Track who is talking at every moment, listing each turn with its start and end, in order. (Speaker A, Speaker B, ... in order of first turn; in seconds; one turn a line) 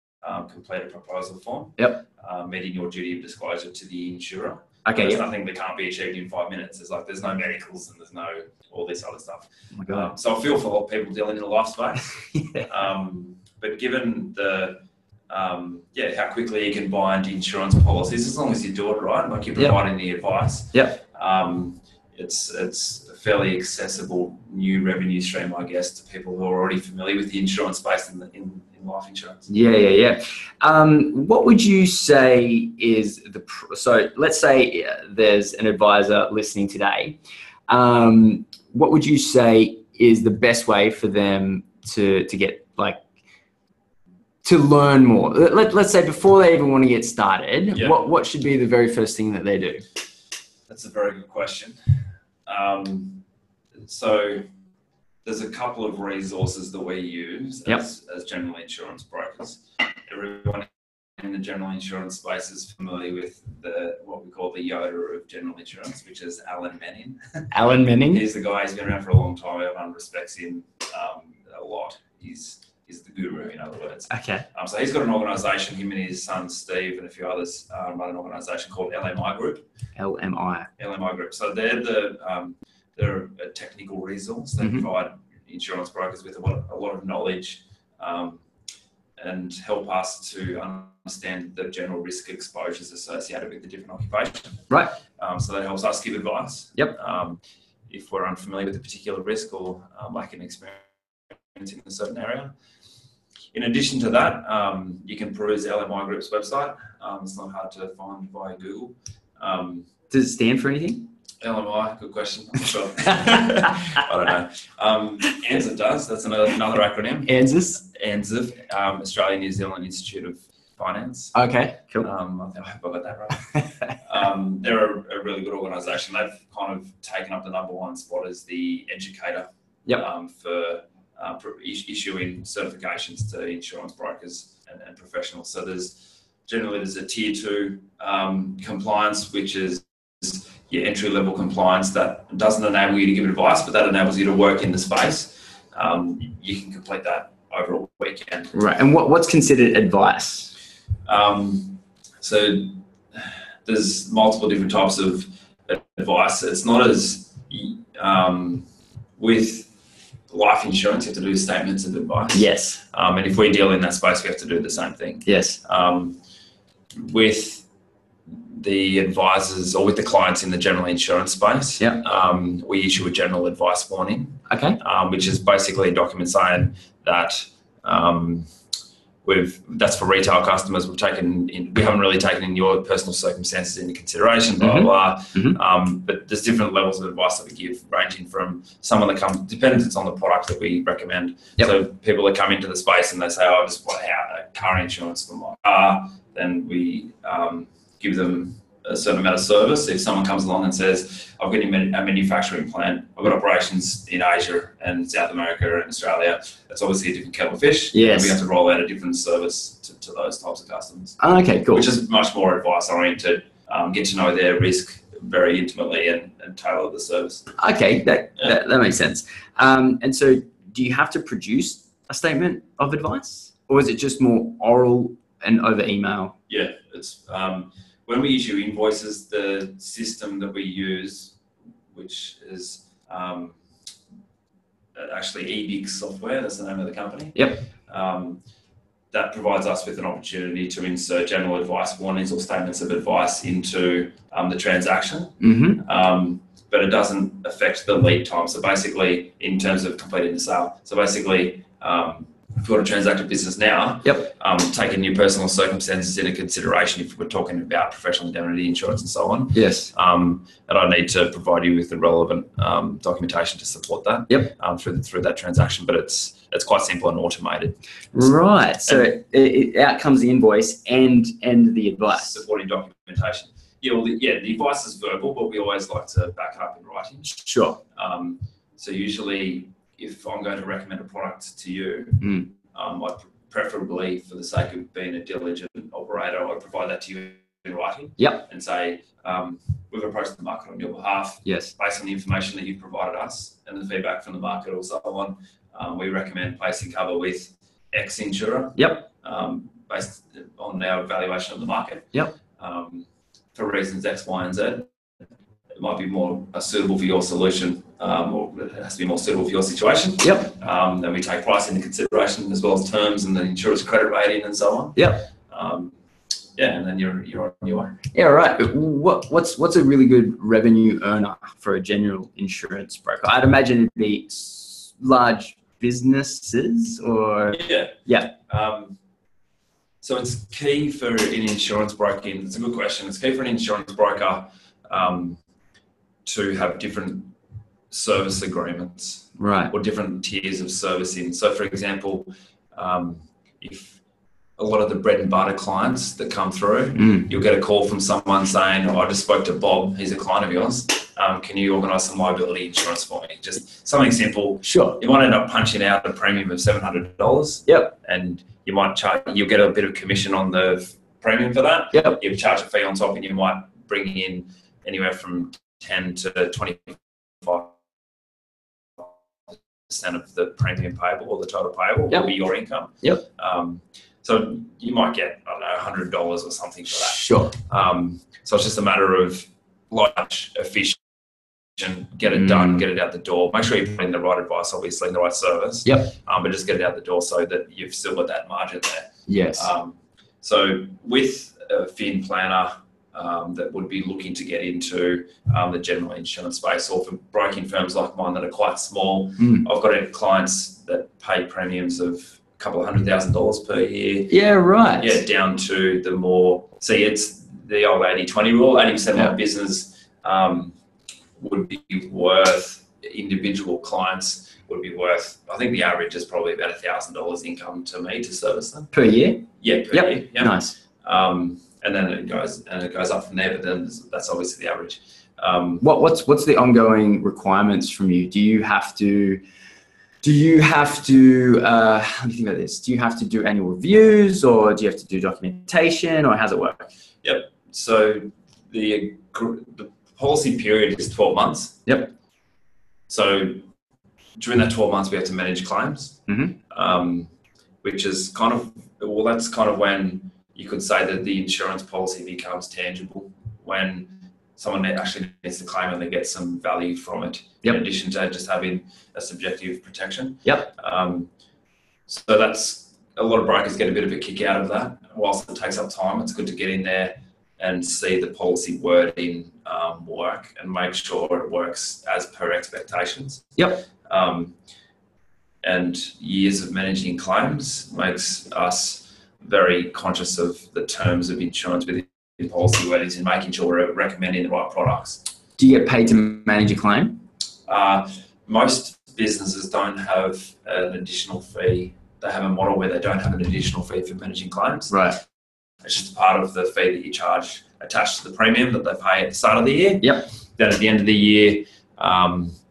Speaker A: 0.2-12.1
Speaker B: 1.8-2.0
Speaker B: 4.8-5.2
Speaker B: 9.7-10.1
Speaker B: 12.2-12.7
Speaker A: 12.7-29.5
Speaker B: 20.7-21.0
Speaker B: 29.5-43.0
Speaker B: 44.4-49.8
Speaker A: 47.7-48.0
Speaker A: 50.7-53.2
Speaker A: 53.8-54.5
Speaker A: 55.2-67.5
Speaker B: 67.5-68.2
Speaker A: 68.1-79.7
Speaker B: 74.1-74.5
Speaker B: 80.0-80.7
Speaker A: 80.8-88.4
Speaker B: 84.6-84.9
Speaker A: 89.2-102.5
Speaker B: 94.7-95.0
Speaker A: 103.5-109.9
Speaker B: 110.1-111.1
Speaker A: 111.4-121.3
Speaker B: 113.1-114.0
Speaker B: 117.2-117.8
Speaker B: 121.3-122.1
Speaker A: 122.0-148.5
Speaker B: 123.5-123.9
Speaker B: 148.5-150.5
Speaker A: 151.1-158.7
Speaker A: 159.2-159.7
Speaker A: 160.3-166.2
Speaker B: 162.3-162.8
Speaker B: 165.2-165.6
Speaker A: 166.9-167.7
Speaker A: 168.3-178.5
Speaker B: 174.5-174.8
Speaker A: 179.2-211.2
Speaker B: 184.6-185.6
Speaker B: 207.9-208.4
Speaker B: 211.2-211.9
Speaker A: 211.7-217.5
Speaker B: 217.5-226.3
Speaker A: 226.5-231.3
Speaker A: 231.9-233.6
Speaker A: 234.9-238.4
Speaker B: 237.3-237.7
Speaker A: 239.1-268.3
Speaker B: 245.4-245.8
Speaker B: 254.0-254.3
Speaker B: 259.5-259.9
Speaker B: 268.1-272.4
Speaker A: 272.1-304.9
Speaker B: 277.2-277.8
Speaker B: 282.2-282.5
Speaker B: 288.2-288.4
Speaker B: 291.4-291.7
Speaker B: 298.7-299.1
Speaker A: 305.7-315.9
Speaker B: 310.2-310.5
Speaker B: 314.9-315.2
Speaker A: 316.6-318.0
Speaker B: 318.1-328.3
Speaker A: 327.5-329.0
Speaker A: 330.0-335.4
Speaker A: 336.2-337.3
Speaker A: 337.9-344.0
Speaker B: 339.4-339.7
Speaker A: 344.6-367.8
Speaker B: 346.9-347.3
Speaker B: 354.6-355.0
Speaker B: 357.7-357.9
Speaker B: 361.9-362.2
Speaker A: 369.0-381.0
Speaker B: 377.0-377.6
Speaker A: 381.8-404.3
Speaker B: 382.3-382.8
Speaker B: 385.8-386.1
Speaker B: 389.3-389.7
Speaker B: 399.4-399.7
Speaker B: 404.3-405.2
Speaker A: 405.0-410.7
Speaker A: 411.4-418.9
Speaker B: 418.9-420.8
Speaker A: 419.6-425.8
Speaker B: 425.8-429.4
Speaker B: 430.2-436.9
Speaker A: 437.2-441.8
Speaker B: 441.9-442.1
Speaker A: 443.1-443.7
Speaker A: 444.4-447.3
Speaker B: 446.3-446.6
Speaker A: 447.8-461.3
Speaker B: 460.4-460.7
Speaker A: 462.1-474.5
Speaker B: 473.6-473.8
Speaker A: 475.6-485.2
Speaker B: 485.6-487.2
Speaker A: 487.7-495.0
Speaker B: 494.9-495.2
Speaker A: 495.8-502.6
Speaker B: 500.0-500.3